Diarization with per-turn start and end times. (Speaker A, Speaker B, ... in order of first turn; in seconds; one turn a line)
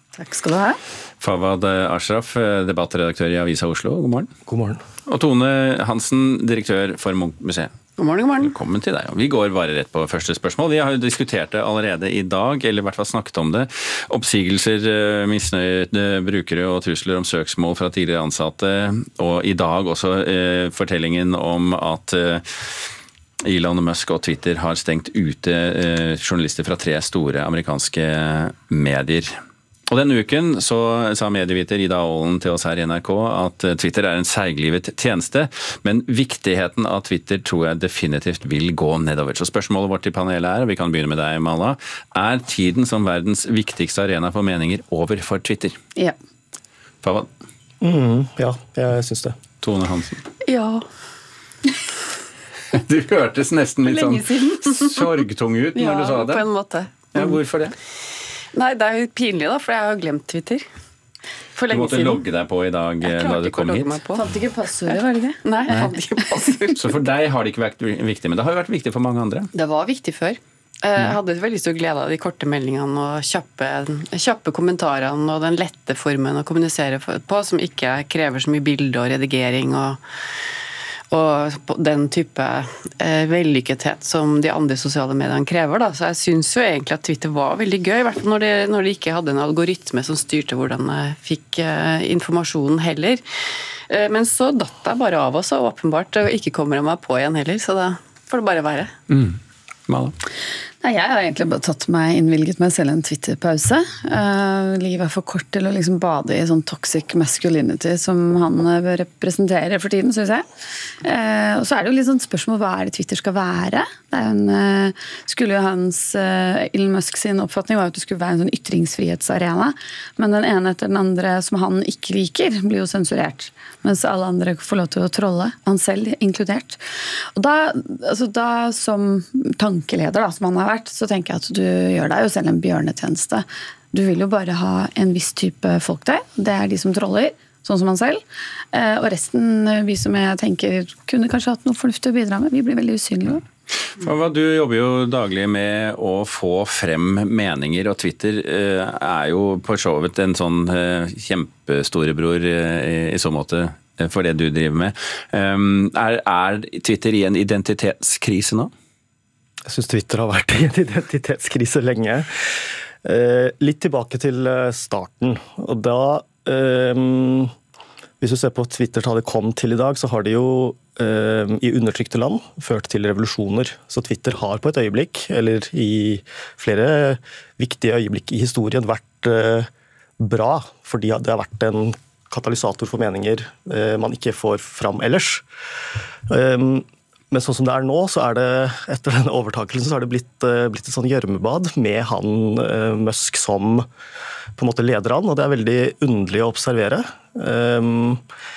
Speaker A: 0.1-0.8
Speaker B: 1.2-4.3
Speaker C: 4.5-4.8
Speaker B: 5.1-7.7
Speaker D: 8.0-8.5
Speaker B: 8.4-22.9
Speaker B: 23.4-29.3
Speaker B: 29.9-45.8
Speaker B: 47.0-47.3
Speaker C: 47.8-49.4
Speaker B: 49.6-50.2
Speaker D: 50.4-50.8
Speaker B: 52.7-56.5
Speaker D: 53.9-55.0
Speaker D: 55.8-57.4
Speaker B: 57.1-57.8
Speaker D: 58.5-60.6
Speaker D: 61.6-62.2
Speaker B: 61.7-64.0
Speaker D: 63.0-66.9
Speaker A: 64.1-65.5
Speaker B: 66.7-69.5
Speaker D: 69.5-80.0
Speaker D: 81.1-93.2
Speaker D: 93.9-98.9
Speaker B: 99.1-100.2
Speaker A: 100.8-110.4
Speaker A: 111.0-126.8
Speaker A: 127.3-138.2
Speaker A: 138.7-143.4
Speaker B: 143.8-158.7
Speaker C: 159.7-162.3
Speaker C: 163.0-167.5
Speaker C: 168.2-185.4
Speaker C: 186.3-193.9
Speaker C: 194.6-198.2